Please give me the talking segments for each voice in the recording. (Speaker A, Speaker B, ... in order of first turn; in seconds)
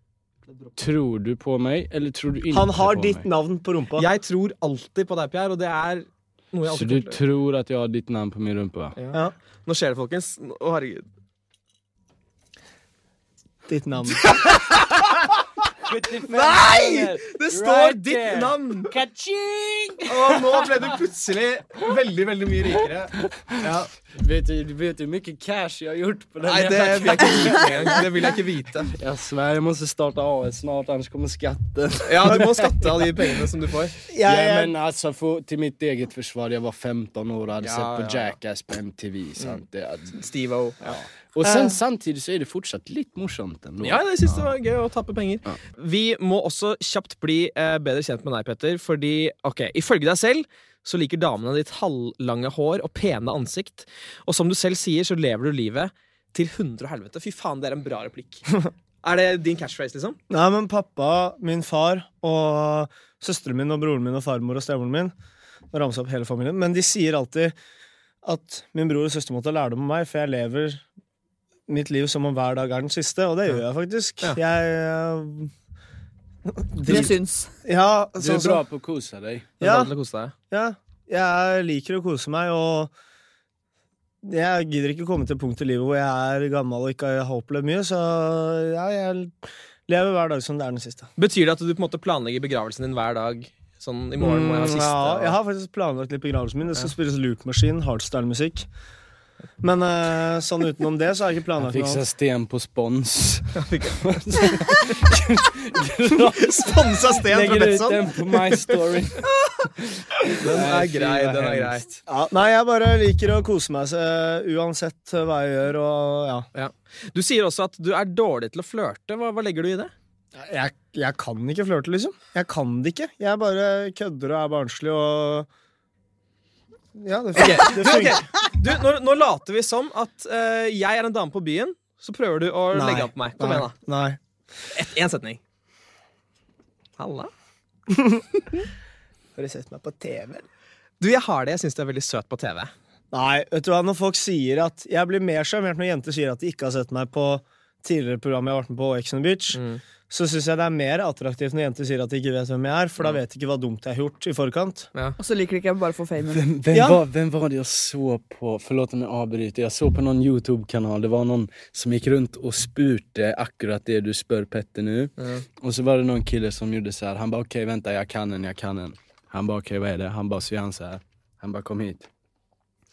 Speaker A: 0.8-3.2, 6.7-8.9, 15.8-20.7, 24.1-28.3, 28.9-33.1, 34.2-40.2, 40.9-44.5, 78.2-79.5, 101.6-112.0, 156.3-172.1
Speaker B: 2.5-4.1, 13.7-14.4, 23.6-23.9, 34.1-34.7, 41.4-41.8, 60.3-65.1, 65.7-67.5, 68.2-70.8, 71.7-75.5, 76.5-78.6, 79.6-79.9, 80.5-82.9, 84.2-91.1, 94.2-98.7, 99.6-102.0, 112.1-116.5, 120.3-125.5, 127.0-128.3, 132.7-134.2, 137.9-138.2, 139.4-140.4, 143.1-154.9, 156.7-157.0
Speaker C: 4.0-7.2, 9.0-11.1, 14.2-14.9, 16.3-18.9, 20.1-23.7, 26.4-28.9, 32.1-34.0, 37.6-38.4, 40.1-41.0, 43.8-60.2, 79.6-80.3, 91.2-95.3, 103.5-104.6, 106.3-108.8, 110.4-111.8, 116.5-119.9, 127.4-133.7, 134.7-135.4, 137.0-137.3, 141.0-142.7, 149.5-149.8, 165.2-165.4
Speaker D: 76.8-77.5, 155.2-156.4